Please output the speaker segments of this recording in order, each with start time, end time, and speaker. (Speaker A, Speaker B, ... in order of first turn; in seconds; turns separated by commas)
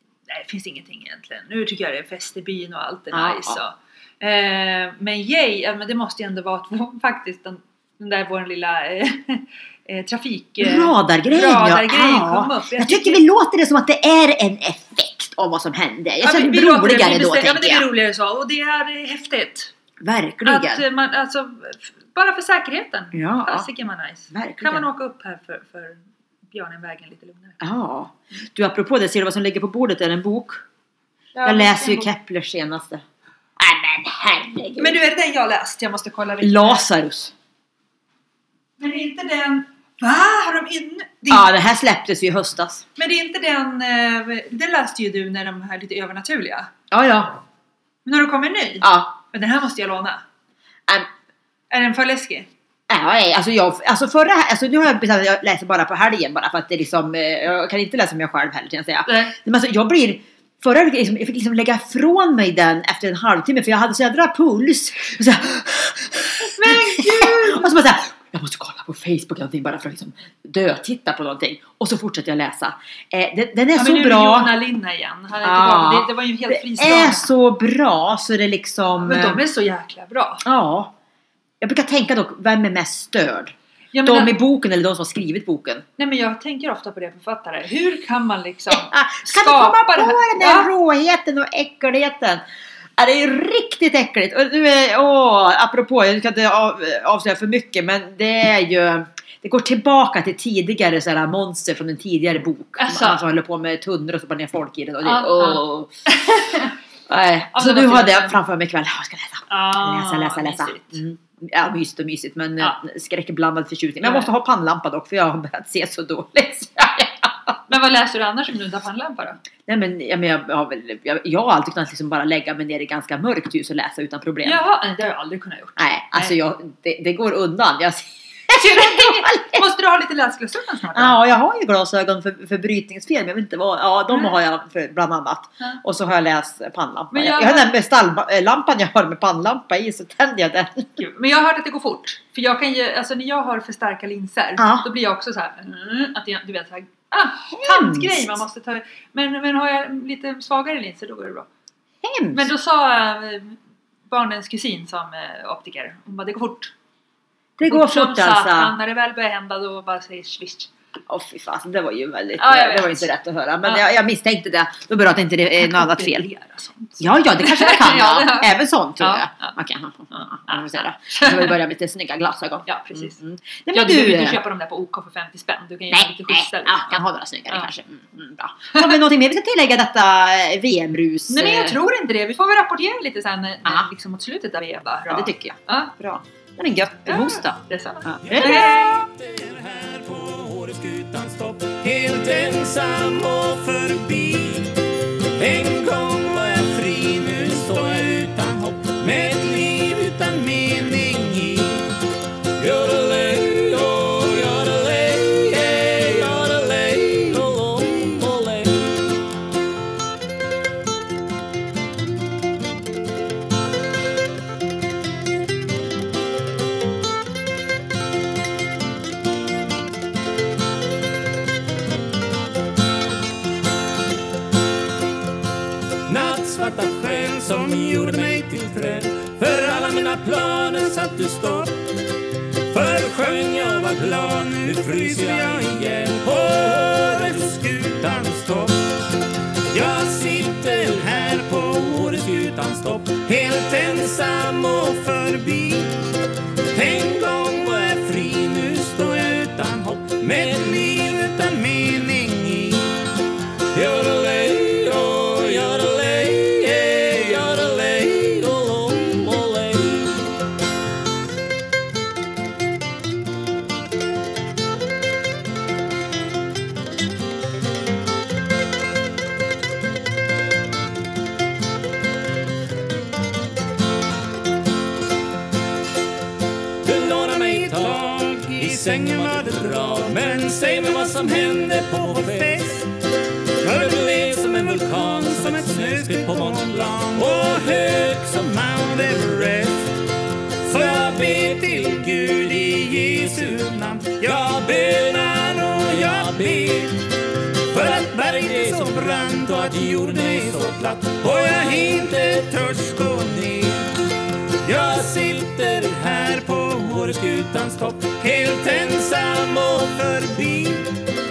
Speaker A: 0.3-13.2, Speaker B: 3.1-3.6, Speaker B: 10.6-17.9, Speaker A: 16.2-19.7, Speaker B: 20.0-20.8, Speaker A: 20.4-27.6, Speaker B: 23.1-23.7, Speaker B: 24.3-24.9, Speaker B: 27.6-30.6, Speaker A: 31.4-32.1, Speaker B: 31.4-33.0, Speaker B: 33.6-35.0, Speaker A: 34.8-36.9, Speaker B: 36.4-37.3, Speaker A: 38.8-41.5, Speaker B: 41.3-42.9, Speaker A: 43.0-46.7, Speaker B: 46.9-47.4, Speaker A: 48.0-50.2, Speaker B: 48.8-49.1, Speaker A: 51.7-52.5, Speaker B: 52.9-74.5, Speaker A: 59.1-59.4, Speaker A: 66.4-67.7, Speaker A: 73.8-77.3, Speaker B: 75.4-79.4, Speaker A: 79.0-80.5, Speaker B: 80.4-80.9, Speaker B: 81.6-85.8, Speaker A: 83.9-84.4, Speaker A: 86.0-90.7, Speaker B: 88.7-92.4, Speaker B: 93.0-105.9, Speaker A: 102.8-103.2, Speaker A: 105.0-106.8, Speaker B: 107.1-117.6, Speaker A: 107.5-108.4, Speaker A: 109.5-111.0, Speaker A: 114.0-114.3, Speaker A: 117.7-119.4, Speaker B: 119.7-124.6, Speaker A: 124.4-126.4, Speaker B: 125.8-129.7, Speaker A: 128.5-131.2, Speaker B: 130.9-140.9, Speaker A: 137.1-137.7, Speaker A: 141.0-151.5, Speaker B: 144.6-144.9, Speaker B: 147.5-148.4, Speaker B: 152.0-152.5, Speaker A: 152.3-156.7, Speaker B: 157.6-158.8, Speaker A: 157.6-160.7, Speaker B: 161.1-166.3, Speaker A: 162.4-163.1, Speaker A: 165.6-169.6, Speaker B: 167.0-174.4, Speaker A: 170.1-171.5, Speaker A: 172.7-173.2, Speaker A: 173.7-177.0, Speaker B: 175.9-181.8, Speaker A: 181.3-185.9, Speaker B: 185.1-188.7, Speaker A: 187.1-189.0, Speaker C: 188.2-194.8, Speaker C: 195.3-201.9, Speaker C: 202.6-209.1, Speaker C: 226.1-231.9, Speaker C: 232.7-239.1, Speaker C: 239.7-246.1, Speaker C: 246.7-253.1, Speaker C: 253.7-260.4, Speaker C: 276.8-282.9, Speaker C: 283.6-290.0, Speaker C: 290.6-297.1, Speaker C: 297.7-304.0, Speaker C: 304.6-310.9